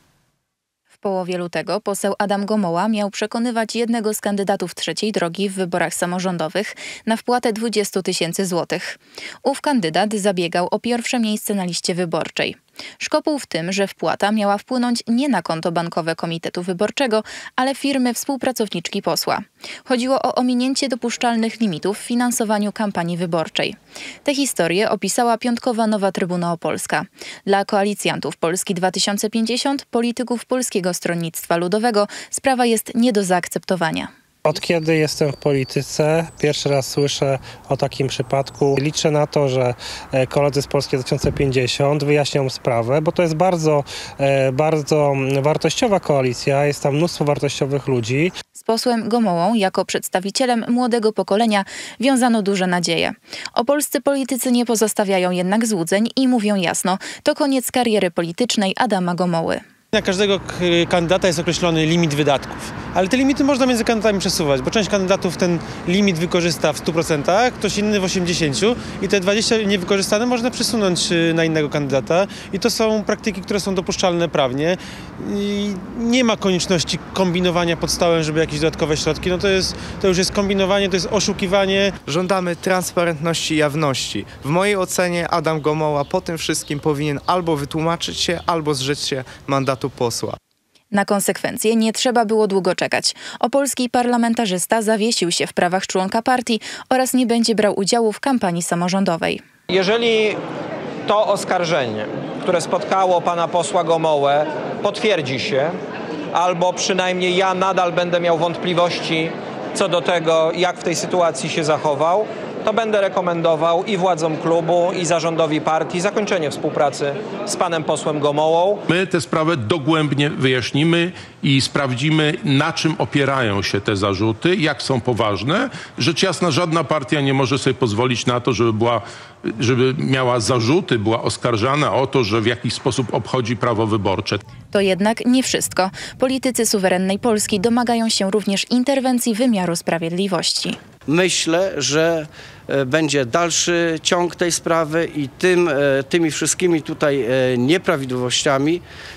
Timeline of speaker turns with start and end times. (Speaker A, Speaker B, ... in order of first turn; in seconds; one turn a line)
Speaker A: 1.0-34.1
Speaker B: 34.4-48.3
Speaker A: 48.5-59.6
Speaker C: 59.9-81.9
Speaker D: 82.1-90.4
Speaker A: 90.9-99.4
Speaker E: 99.7-100.4
Speaker E: 101.1-105.7
Speaker E: 106.3-118.8
Speaker F: 118.9-134.4
Speaker A: 134.7-140.8
Speaker G: 141.1-148.8